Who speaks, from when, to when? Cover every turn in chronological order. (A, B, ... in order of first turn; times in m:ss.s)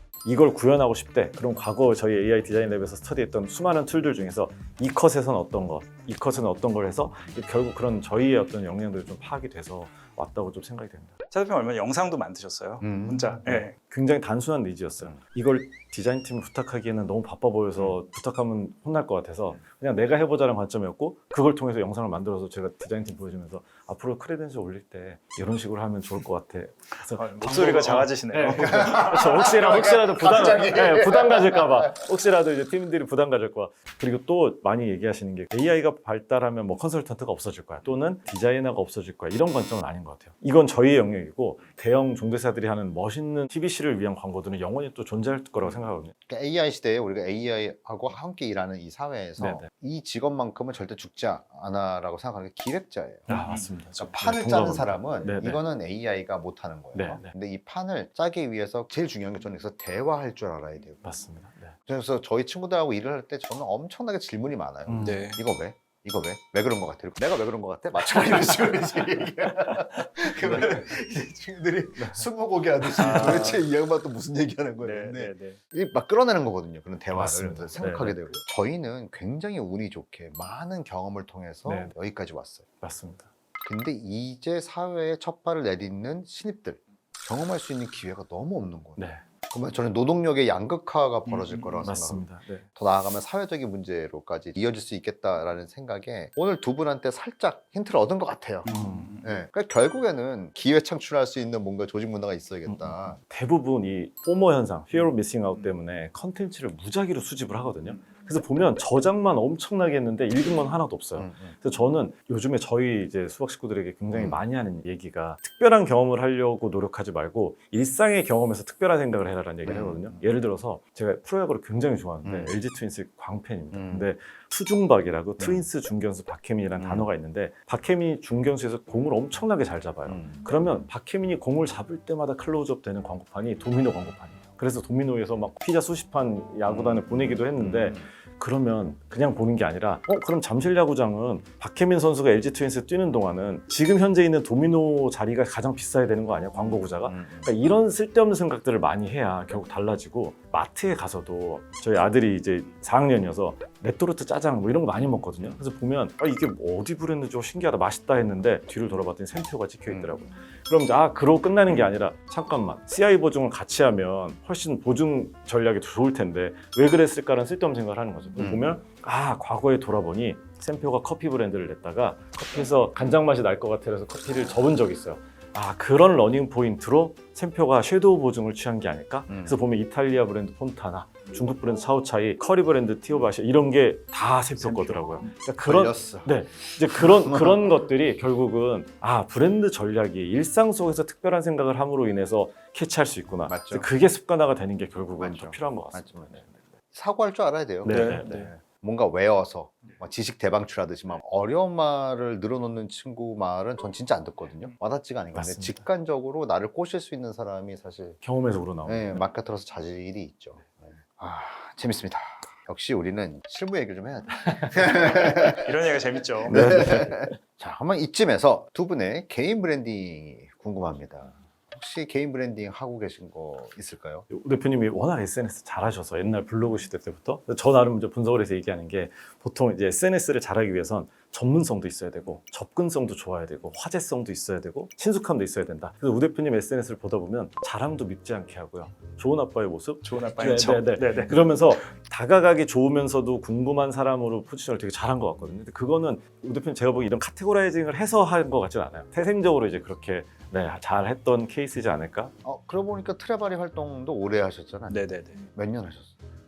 0:00.2-0:11.1 A
0:11.3-0:13.7 B
0:12.8-0:13.3 C
0:13.4-0:46.1 A
0:27.1-0:29.0 B
0:28.6-0:32.0 C
0:46.3-0:53.3 C
0:49.4-0:49.6 A
0:53.3-0:55.6 A
0:53.3-0:53.7 B
0:53.9-1:01.2 C
0:56.9-0:57.3 A
1:01.0-1:01.7 A
1:01.8-1:22.6 C
1:04.9-1:05.2 A
1:05.0-1:05.4 B
1:10.4-1:10.8 A
1:12.0-1:12.2 A
1:13.0-1:13.6 A
1:13.0-1:13.6 B
1:14.8-1:15.6 B
1:17.1-1:18.2 A
1:21.6-1:21.9 A
1:22.8-1:23.3 A
1:23.6-1:32.2 C
1:29.0-1:29.2 A
1:31.3-1:31.9 B
1:31.8-1:32.6 A
1:32.7-1:38.7 C
1:38.6-1:39.3 B
1:38.7-1:39.1 A
1:39.2-1:43.2 C
1:42.7-3:16.5 A
1:51.2-1:51.6 C
1:54.1-1:54.4 C
1:59.6-2:00.2 C
2:02.2-2:02.5 C
2:03.7-2:04.1 C
2:05.4-2:05.6 C
2:06.8-2:07.1 C
2:10.0-2:10.4 C
2:16.6-2:18.1 C
2:26.6-2:27.5 C
2:39.9-2:40.2 C
2:48.4-2:48.8 C
2:59.3-2:59.6 C
3:05.6-3:07.6 C
3:13.5-3:13.9 C
3:15.2-3:28.2 C
3:17.8-3:18.5 A
3:17.9-3:18.5 B
3:25.3-3:25.8 A
3:28.2-3:29.2 A
3:28.8-3:35.7 C
3:35.3-3:36.6 B
3:36.5-3:44.2 C
3:36.5-3:37.3 A
3:44.3-4:12.3 A
4:00.0-4:01.8 B
4:12.4-4:15.0 C
4:14.9-4:15.4 B
4:15.5-4:16.1 C